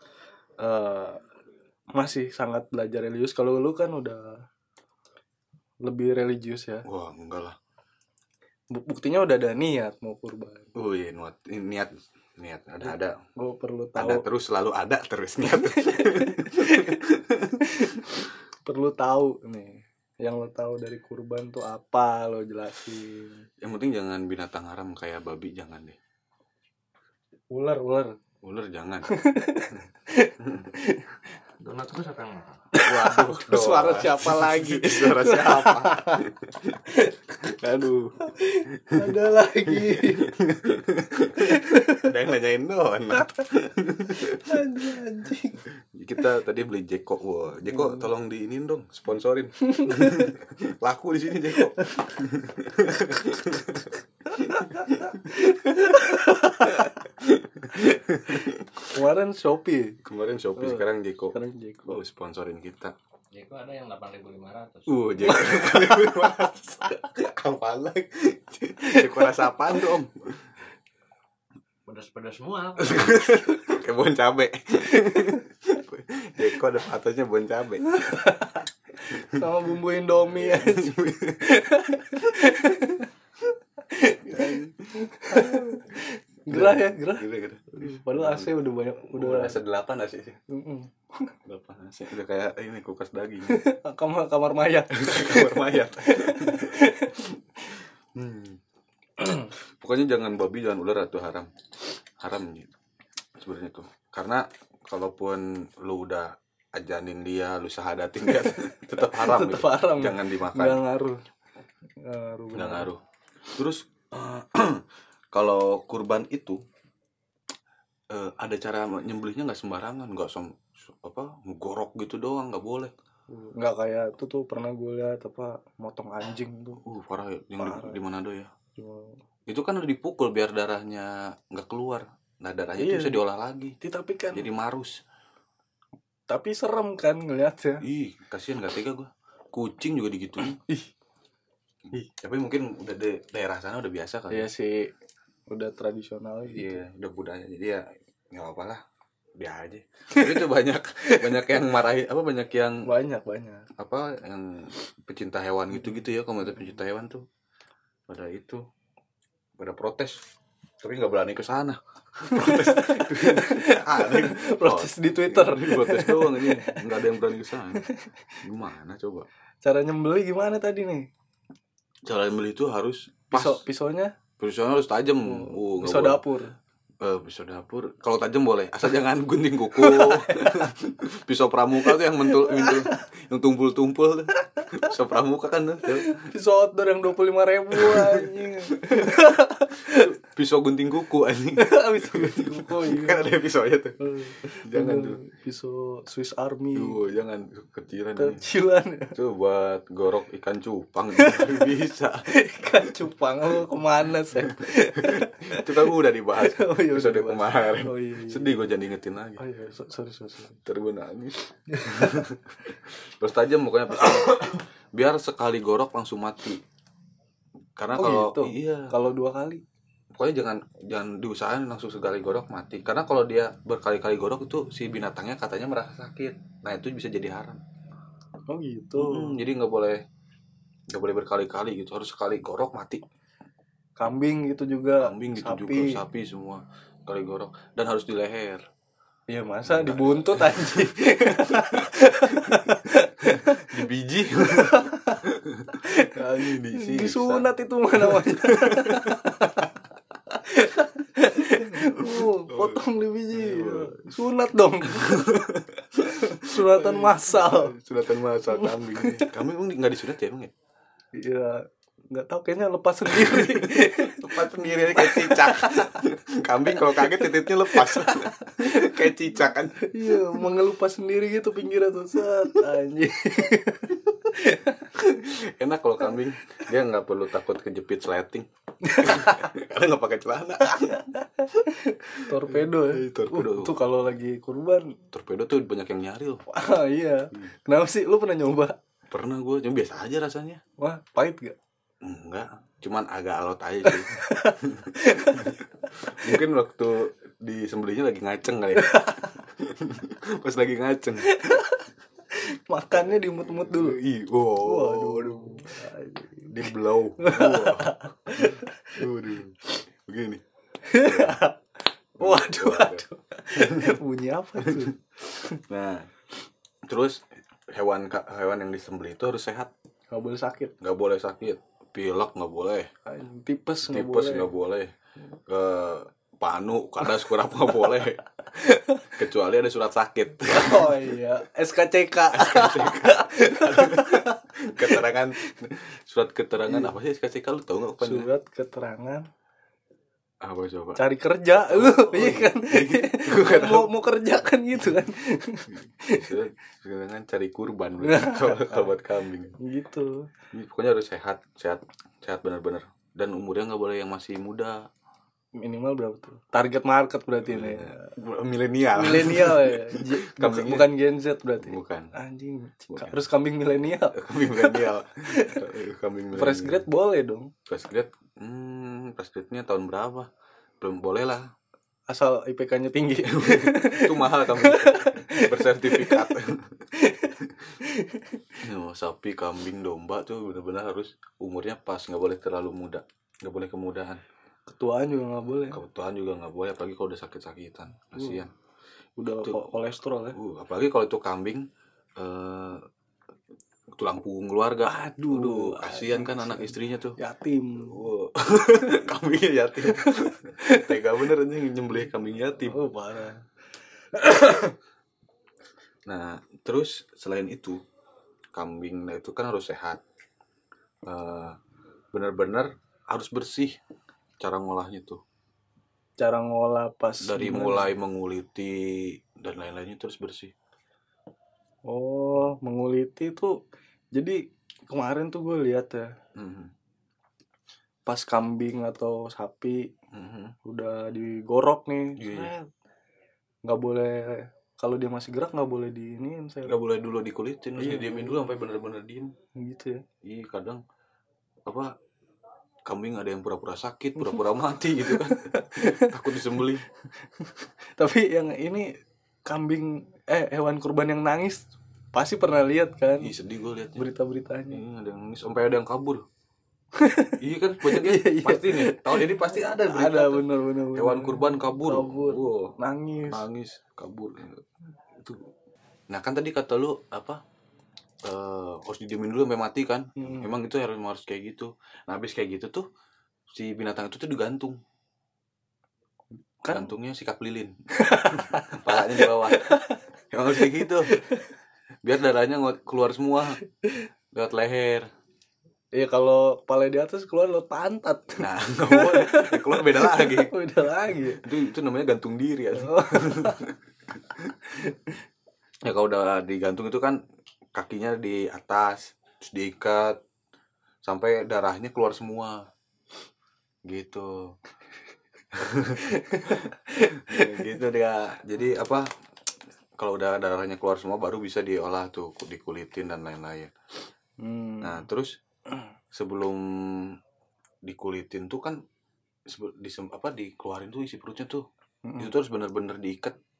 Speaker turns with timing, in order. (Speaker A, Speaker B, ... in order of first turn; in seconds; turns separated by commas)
Speaker A: 0.6-1.2, Speaker A: 1.9-4.4, Speaker A: 5.8-6.8, Speaker B: 6.8-7.6, Speaker A: 8.7-10.7, Speaker B: 10.7-13.2, Speaker A: 13.3-14.2, Speaker B: 13.9-17.7, Speaker A: 15.4-17.0, Speaker A: 17.6-23.4, Speaker B: 23.6-26.0, Speaker A: 27.5-28.1, Speaker B: 28.4-29.1, Speaker A: 29.1-31.2, Speaker B: 30.4-30.7, Speaker C: 31.6-32.7, Speaker A: 32.7-36.3, Speaker B: 32.8-36.8, Speaker A: 36.9-40.3, Speaker B: 37.4-38.1, Speaker B: 38.9-39.2, Speaker B: 39.7-44.9, Speaker A: 41.4-42.1, Speaker A: 43.2-43.4, Speaker A: 44.2-45.6, Speaker B: 45.8-55.5, Speaker A: 47.7-48.0, Speaker A: 49.6-50.3, Speaker A: 54.3-57.0, Speaker B: 56.6-58.9, Speaker A: 57.9-60.0, Speaker B: 60.0-62.9, Speaker A: 60.5-62.0, Speaker C: 63.3-65.3, Speaker B: 64.9-70.4, Speaker A: 65.2-66.4, Speaker A: 68.8-69.5, Speaker C: 71.8-73.1, Speaker B: 72.8-78.2, Speaker A: 74.9-75.4, Speaker A: 77.8-83.1, Speaker B: 79.1-79.5, Speaker B: 80.3-82.5, Speaker A: 83.9-89.6, Speaker B: 84.2-85.8, Speaker B: 86.5-88.5, Speaker B: 89.1-90.4, Speaker A: 90.5-91.3, Speaker B: 91.5-93.6, Speaker A: 93.4-97.3, Speaker B: 94.9-97.2, Speaker B: 98.1-98.6, Speaker A: 99.2-99.5, Speaker B: 99.2-101.5, Speaker B: 102.2-102.7, Speaker B: 103.4-110.8, Speaker A: 108.4-111.2, Speaker A: 112.0-112.9, Speaker B: 112.5-113.0, Speaker B: 113.5-116.6, Speaker B: 118.1-122.9, Speaker A: 123.3-126.8, Speaker B: 126.8-128.5, Speaker A: 127.6-128.0, Speaker A: 128.8-129.2, Speaker B: 129.5-133.8, Speaker A: 132.8-133.2, Speaker A: 133.8-134.5, Speaker B: 134.3-135.0, Speaker A: 136.3-137.8, Speaker B: 137.8-140.6, Speaker B: 141.9-144.5, Speaker A: 144.3-144.9, Speaker A: 145.5-146.8, Speaker B: 146.5-148.8, Speaker B: 149.4-152.9, Speaker A: 150.1-150.4, Speaker A: 151.0-151.6, Speaker A: 152.8-153.7, Speaker B: 153.8-157.2, Speaker B: 158.1-158.6, Speaker B: 159.6-160.3, Speaker B: 160.8-167.8, Speaker A: 162.3-166.9, Speaker A: 167.7-168.1, Speaker B: 168.4-169.3, Speaker A: 169.6-171.1, Speaker B: 172.1-173.6, Speaker A: 173.3-174.1, Speaker B: 174.4-176.2, Speaker A: 175.2-176.5, Speaker B: 177.0-186.2, Speaker A: 179.8-180.7, Speaker A: 181.9-183.0, Speaker A: 186.0-190.1, Speaker B: 187.7-189.2, Speaker B: 189.9-194.0, Speaker A: 191.6-193.3, Speaker A: 194.0-197.0, Speaker B: 194.5-195.2, Speaker B: 196.7-198.4, Speaker A: 198.2-199.2, Speaker B: 199.1-202.3, Speaker A: 201.2-201.7, Speaker A: 202.3-208.6, Speaker B: 204.3-209.4, Speaker A: 209.4-210.6, Speaker B: 210.6-216.6, Speaker A: 211.7-212.3, Speaker B: 217.8-218.9, Speaker A: 217.9-219.6, Speaker B: 220.1-227.6, Speaker A: 228.5-229.4, Speaker B: 229.0-230.0, Speaker B: 230.9-233.0, Speaker A: 234.0-236.0, Speaker B: 235.0-238.7, Speaker A: 239.3-243.8, Speaker B: 239.7-249.7, Speaker A: 244.4-249.7, Speaker A: 250.3-255.5, Speaker B: 251.4-252.8, Speaker B: 253.3-254.0, Speaker B: 254.8-260.5, Speaker A: 256.3-257.7, Speaker A: 258.5-259.3, Speaker A: 261.1-265.9, Speaker B: 263.1-270.5, Speaker A: 266.7-269.1, Speaker A: 269.8-274.9, Speaker B: 274.9-278.5, Speaker A: 278.8-279.5, Speaker B: 279.0-281.0, Speaker A: 280.8-285.0, Speaker B: 282.3-283.8, Speaker B: 285.1-286.4, Speaker A: 286.5-288.8, Speaker B: 289.1-290.6, Speaker A: 290.8-291.6, Speaker B: 292.0-301.4, Speaker A: 293.9-295.6, Speaker A: 298.8-299.4, Speaker A: 301.2-304.0, Speaker B: 302.9-305.7, Speaker A: 304.6-306.6, Speaker B: 306.5-310.4, Speaker A: 307.2-309.1, Speaker A: 310.8-311.6, Speaker B: 310.9-311.4, Speaker A: 312.2-315.6, Speaker B: 312.2-314.0, Speaker B: 314.6-314.9, Speaker B: 315.6-316.1, Speaker B: 316.9-319.7, Speaker A: 320.1-320.7, Speaker B: 320.8-322.9, Speaker A: 323.1-324.5, Speaker B: 323.9-324.9, Speaker B: 325.5-328.2, Speaker A: 328.5-329.1, Speaker B: 329.1-331.1, Speaker A: 330.4-335.5, Speaker B: 332.3-338.3, Speaker A: 336.7-336.9, Speaker A: 338.0-339.3, Speaker B: 340.4-341.0, Speaker A: 341.0-346.3, Speaker B: 341.6-343.9, Speaker B: 346.0-349.5, Speaker A: 348.0-348.9, Speaker A: 349.6-350.3, Speaker B: 350.5-354.9, Speaker A: 355.6-358.1, Speaker B: 357.4-360.9, Speaker A: 358.9-365.6, Speaker B: 361.6-362.1, Speaker B: 362.9-363.2, Speaker B: 364.1-366.8, Speaker A: 366.3-367.5, Speaker B: 367.7-371.5, Speaker A: 372.1-376.3, Speaker B: 373.2-376.8, Speaker A: 376.9-378.5, Speaker B: 377.4-377.7, Speaker B: 378.6-384.2, Speaker A: 384.7-385.8, Speaker B: 385.7-388.5, Speaker A: 388.2-388.4, Speaker A: 389.2-390.4, Speaker B: 389.4-389.7, Speaker B: 390.3-392.8, Speaker B: 393.9-397.2, Speaker A: 394.8-398.0, Speaker B: 397.8-402.8, Speaker A: 399.9-401.0, Speaker A: 402.7-403.4, Speaker A: 404.2-404.7, Speaker B: 406.1-407.8, Speaker B: 408.5-410.0, Speaker B: 411.0-411.6, Speaker B: 412.1-413.8, Speaker B: 414.4-415.2, Speaker A: 416.2-417.9, Speaker B: 417.2-420.5, Speaker A: 421.9-423.6, Speaker A: 424.1-426.1, Speaker B: 426.4-426.7, Speaker A: 428.1-429.9, Speaker B: 430.1-430.5, Speaker A: 430.6-432.7, Speaker B: 432.2-432.5, Speaker A: 433.6-436.8, Speaker B: 436.6-439.3, Speaker A: 437.8-438.4, Speaker A: 439.6-440.0, Speaker B: 440.2-440.8, Speaker B: 441.6-441.9, Speaker B: 442.9-446.8, Speaker A: 445.0-446.2, Speaker A: 447.4-448.9, Speaker A: 449.4-453.3, Speaker B: 453.2-454.1, Speaker A: 454.0-454.8, Speaker B: 454.7-456.2, Speaker A: 456.9-463.4, Speaker B: 457.4-462.7, Speaker B: 463.3-465.5, Speaker B: 466.1-467.4, Speaker B: 468.2-472.9, Speaker A: 470.2-470.5, Speaker B: 473.5-474.8, Speaker A: 476.6-476.9, Speaker B: 476.7-477.8, Speaker A: 477.9-480.0, Speaker B: 478.3-479.8, Speaker B: 480.3-481.1, Speaker A: 480.6-481.5, Speaker B: 482.0-483.6, Speaker B: 484.3-485.1, Speaker A: 485.9-491.4, Speaker B: 488.4-490.6, Speaker B: 491.3-494.5, Speaker A: 492.8-493.6, Speaker A: 494.8-495.1, Speaker B: 495.8-497.2, Speaker B: 497.7-500.2, Speaker B: 501.0-502.6, Speaker B: 503.9-504.6, Speaker B: 505.5-509.1, Speaker A: 506.0-507.7, Speaker B: 510.0-513.7, Speaker A: 514.4-515.0, Speaker B: 514.8-515.4, Speaker B: 516.1-517.2, Speaker B: 517.8-518.8, Speaker B: 519.5-521.6, Speaker A: 522.0-522.3, Speaker B: 522.2-523.4